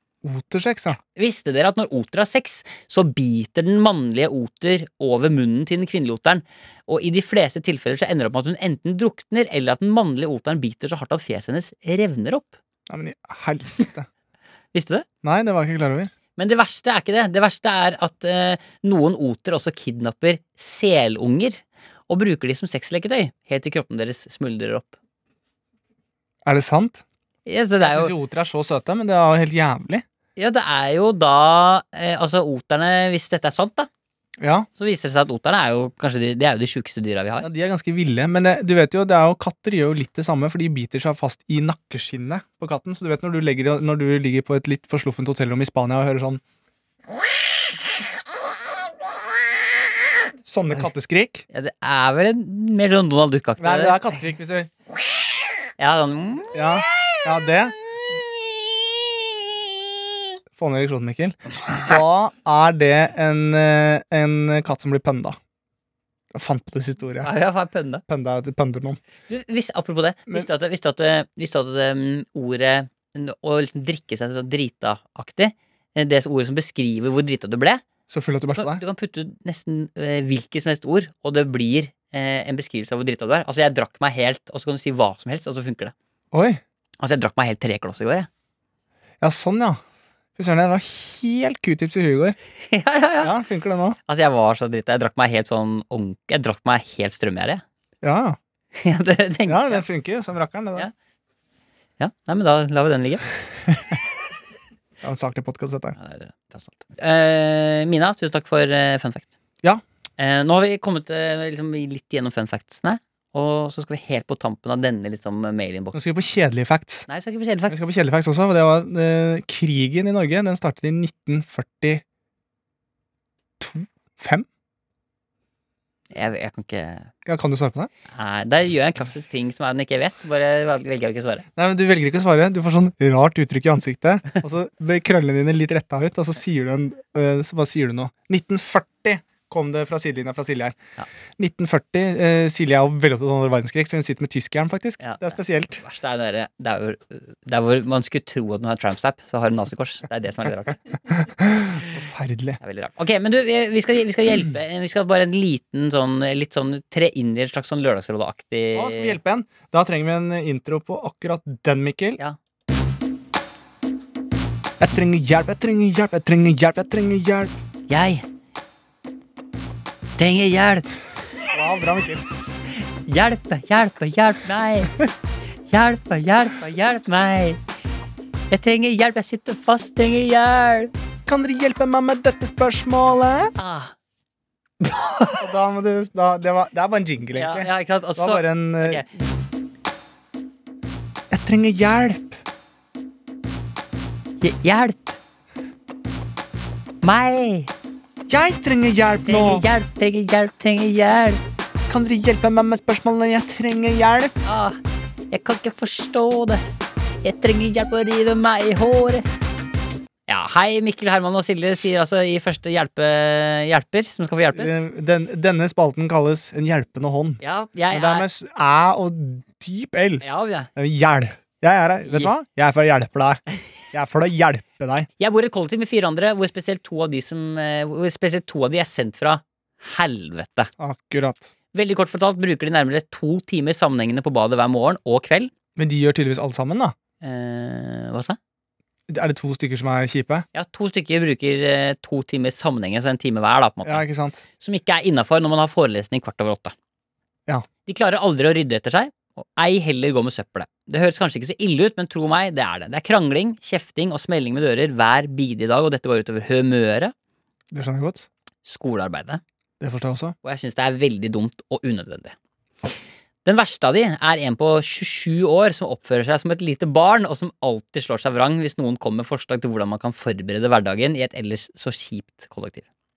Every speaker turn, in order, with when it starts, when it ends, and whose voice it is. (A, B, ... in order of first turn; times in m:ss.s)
0:00.2-0:01.0 A
0:01.0-0:12.6 B
0:12.9-0:14.1 A
0:14.7-0:15.0 B
0:15.2-0:16.1 A
0:16.4-0:25.0 B
0:26.4-0:27.0 A
0:27.4-0:28.1 B
0:27.8-0:30.0 A
0:30.4-0:33.9 B
0:34.4-0:34.7 A
0:34.8-0:37.5 B
0:37.4-0:46.4 A
0:50.4-0:51.4 A
0:51.5-0:54.2 B
0:53.6-0:54.7 A
0:55.8-0:56.6 B
0:56.5-0:57.7 A
1:00.6-1:05.4 A
1:06.3-1:07.3 A
1:07.2-1:08.0 B
1:08.1-1:09.0 A
1:09.3-1:17.8 B
1:18.1-1:18.8 A
1:18.5-1:25.9 B
1:26.3-1:26.6 A
1:27.0-1:28.3 B
1:29.2-1:29.8 A
1:30.4-1:32.4 A
1:32.7-1:33.3 B
1:33.2-1:34.0 A
1:34.1-1:37.6 B
1:38.0-1:38.4 A
1:38.7-1:39.8 B
1:39.4-1:40.9 A
1:42.0-1:43.3 B
1:45.0-1:46.0 A
1:46.0-1:49.3 B
1:50.2-1:56.0 B
1:55.9-1:57.0 A
1:57.1-1:57.8 B
1:57.7-2:02.0 A
2:03.6-2:04.4 A
2:06.1-2:07.1 B
2:07.2-2:07.9 A
2:08.1-2:11.4 B
2:11.6-2:20.8 A
2:21.4-2:25.8 A
2:25.0-2:31.0 B
2:31.2-2:32.6 A
2:32.6-2:39.2 B
2:38.7-2:42.2 A
2:44.8-2:47.6 A
2:47.9-2:48.2 B
2:50.2-2:50.9 B
2:51.5-2:52.2 A
2:52.8-2:54.9 B
2:55.7-2:57.6 B
2:58.5-3:00.9 B
3:01.2-3:03.5 A
3:03.6-3:03.9 B
3:04.8-3:05.4 B
3:05.4-3:09.0 A
3:07.4-3:09.1 B
3:11.3-3:12.4 A
3:14.4-3:15.2 B
3:17.0-3:17.7 B
3:18.3-3:19.6 A
3:19.2-3:21.4 B
3:21.9-3:24.3 A
3:24.4-3:24.8 B
3:25.3-3:26.6 B
3:27.2-3:29.2 B
3:30.3-3:34.8 B
3:34.5-3:45.1 A
3:37.4-3:38.3 B
3:40.2-3:40.7 B
3:42.1-3:42.3 B
3:45.2-3:50.7 B
3:50.8-3:51.5 A
3:51.7-3:55.5 B
3:55.8-3:56.9 A
3:57.2-3:58.4 B
3:59.1-4:00.4 A
4:00.5-4:04.1 B
4:03.8-4:04.4 A
4:04.6-4:06.7 B
4:07.8-4:17.1 B
4:17.7-4:18.3 A
4:18.6-4:19.4 B
4:19.8-4:20.3 A
4:20.4-4:22.3 B
4:23.4-4:32.8 B